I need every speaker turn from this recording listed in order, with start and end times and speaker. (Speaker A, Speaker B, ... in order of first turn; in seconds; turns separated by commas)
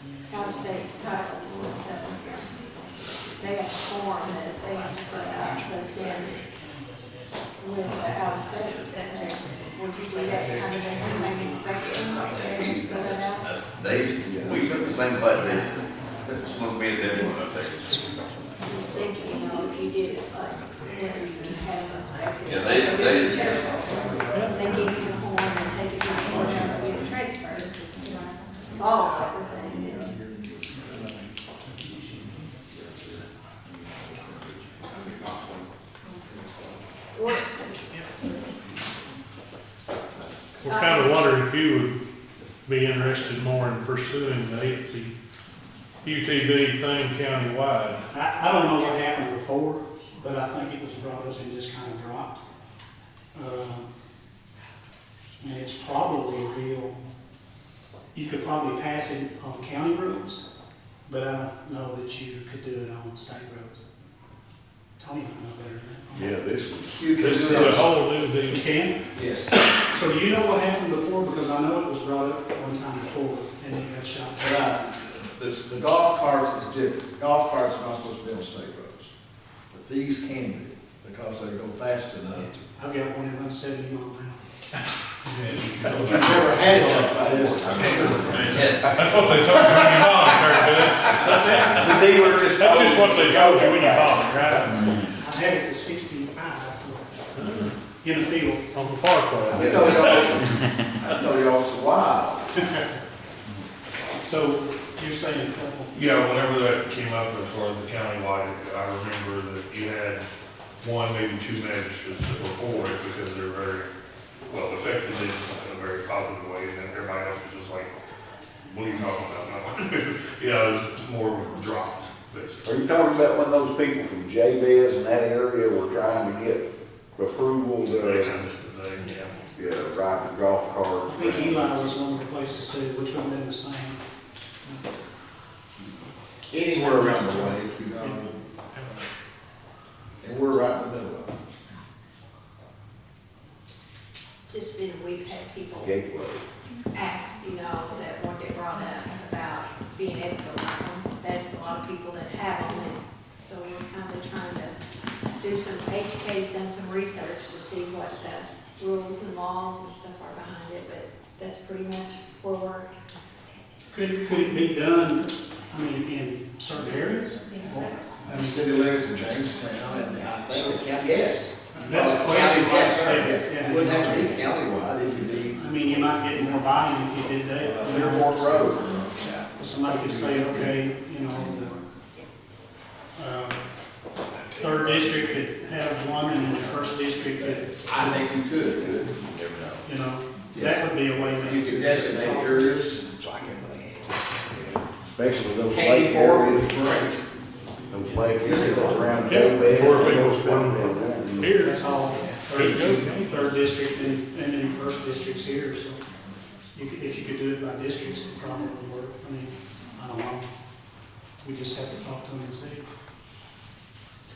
Speaker A: 0.3-2.5, Speaker A: 3.4-6.4, Speaker A: 7.6-13.4, Speaker B: 12.2-18.3, Speaker A: 18.7-28.1, Speaker B: 22.4-24.4, Speaker C: 24.3-24.6, Speaker A: 28.7-30.1, Speaker A: 37.1-37.5, Speaker C: 40.6-42.0, Speaker A: 40.7-41.1, Speaker C: 42.6-45.1, Speaker C: 46.0-48.0, Speaker D: 48.1-52.4, Speaker D: 53.3-53.9, Speaker D: 55.4-57.0, Speaker D: 58.1-60.4, Speaker D: 61.0-63.8, Speaker D: 65.0-66.3, Speaker E: 66.1-67.0, Speaker F: 66.9-68.0, Speaker C: 67.1-68.6, Speaker D: 67.5-67.8, Speaker D: 68.4-69.0, Speaker F: 69.1-69.5, Speaker D: 69.5-74.7, Speaker F: 74.4-79.1, Speaker F: 79.7-82.6, Speaker D: 82.7-84.4, Speaker C: 85.3-87.2, Speaker F: 86.0-88.9, Speaker E: 86.6-88.7, Speaker C: 88.1-95.0, Speaker B: 88.5-88.8, Speaker F: 89.5-89.8, Speaker E: 91.4-94.9, Speaker D: 95.2-97.1, Speaker C: 97.3-97.7, Speaker D: 98.0-98.7, Speaker C: 98.7-100.3, Speaker F: 99.5-102.5, Speaker E: 99.5-100.6, Speaker D: 104.2-106.0, Speaker G: 105.9-110.2, Speaker G: 110.8-113.9, Speaker G: 114.5-117.9, Speaker G: 118.6-122.6, Speaker E: 122.6-128.3, Speaker G: 127.9-129.4, Speaker E: 129.5-131.7, Speaker D: 131.0-134.0, Speaker G: 131.2-131.8, Speaker F: 136.5-138.3, Speaker D: 136.7-138.5, Speaker C: 138.7-139.0, Speaker F: 140.2-141.4, Speaker A: 144.5-145.9, Speaker E: 145.7-146.4, Speaker A: 146.9-154.8, Speaker A: 155.4-162.9, Speaker D: 163.9-168.6, Speaker F: 168.3-176.1, Speaker D: 171.7-174.4, Speaker D: 175.5-178.9, Speaker F: 177.6-179.5, Speaker D: 179.6-181.8, Speaker F: 180.1-180.5, Speaker D: 183.2-183.6, Speaker D: 184.5-188.2, Speaker F: 187.9-189.8, Speaker D: 189.8-192.7, Speaker F: 190.5-190.8, Speaker F: 191.4-193.1, Speaker E: 195.0-196.8, Speaker F: 195.7-197.2, Speaker E: 197.9-201.5, Speaker F: 198.4-199.5, Speaker C: 199.3-201.8, Speaker D: 201.6-206.0, Speaker C: 202.5-203.3, Speaker D: 206.7-210.5, Speaker D: 211.4-212.9